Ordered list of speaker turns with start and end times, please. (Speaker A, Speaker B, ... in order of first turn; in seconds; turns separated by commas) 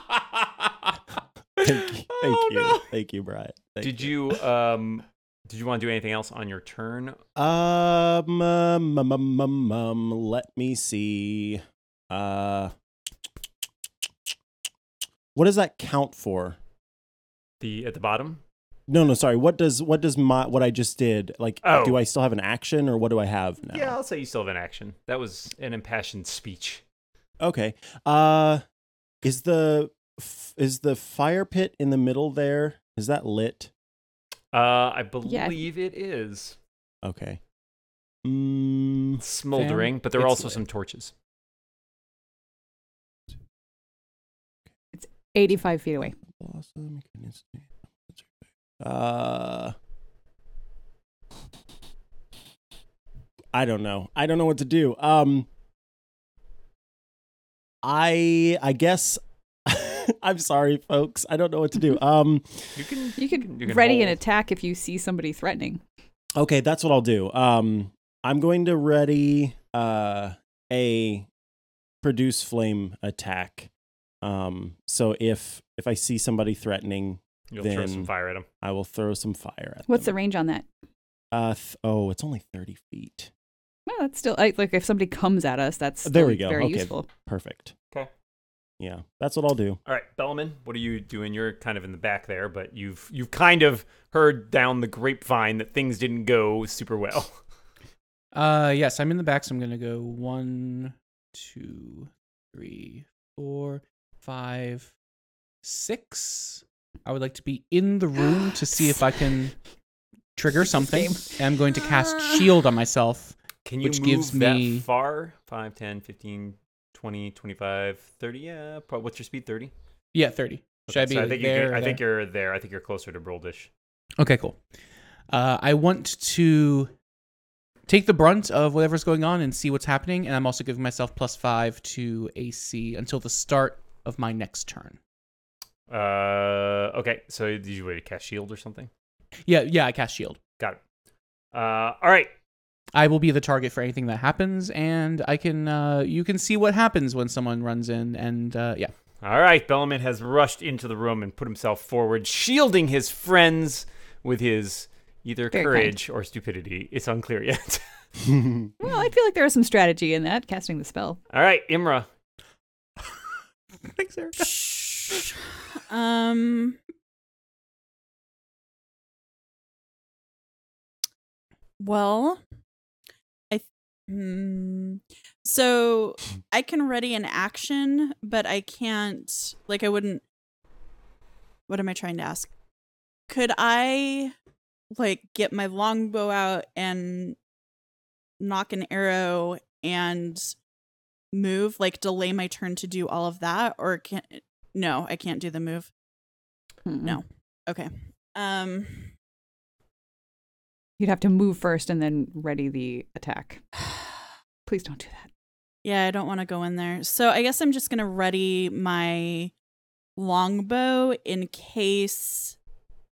Speaker A: 1.6-4.2, Speaker B: 1.6-2.8, Speaker C: 3.8-7.2, Speaker A: 7.4-12.7, Speaker A: 15.3-16.6, Speaker C: 17.6-18.4, Speaker A: 18.9-24.0, Speaker C: 21.6-22.0, Speaker C: 23.7-26.8, Speaker A: 27.4-28.6, Speaker A: 29.2-33.7, Speaker C: 34.5-36.6, Speaker D: 35.2-35.6, Speaker A: 37.0-37.4, Speaker A: 38.2-39.2, Speaker C: 39.2-41.1, Speaker B: 39.6-40.5, Speaker D: 44.9-46.1, Speaker A: 46.2-49.8, Speaker A: 53.5-55.5, Speaker A: 57.8-62.9, Speaker C: 62.8-64.2, Speaker D: 63.2-65.8, Speaker A: 66.4-71.3, Speaker A: 72.0-73.7, Speaker A: 74.2-80.1, Speaker C: 77.5-78.5, Speaker D: 79.9-80.7, Speaker A: 81.3-83.3, Speaker D: 83.9-87.1, Speaker A: 86.0-87.7, Speaker A: 88.8-89.8, Speaker C: 89.9-97.4, Speaker B: 98.3-104.9, Speaker B: 105.6-109.6, Speaker B: 110.4-114.9, Speaker D: 110.6-111.4, Speaker C: 113.7-119.7, Speaker B: 120.1-122.0, Speaker C: 120.9-123.7, Speaker B: 124.2-124.6, Speaker B: 125.3-126.9, Speaker B: 127.9-135.0, Speaker C: 135.9-138.9, Speaker B: 139.5-140.4, Speaker C: 141.5-142.3, Speaker B: 142.9-148.9, Speaker C: 149.2-157.8, Speaker D: 155.5-155.9, Speaker A: 158.3-158.7, Speaker D: 158.8-161.2, Speaker C: 161.3-162.1, Speaker B: 163.9-164.6, Speaker E: 164.4-165.3, Speaker E: 165.9-166.8, Speaker E: 171.8-172.4, Speaker E: 173.5-180.2, Speaker E: 181.7-182.5, Speaker E: 183.3-184.3, Speaker E: 184.9-187.4, Speaker E: 188.4-190.6, Speaker E: 191.3-195.9, Speaker D: 196.9-197.2, Speaker E: 197.0-199.1, Speaker D: 201.0-205.3, Speaker E: 205.8-209.5, Speaker E: 210.2-212.6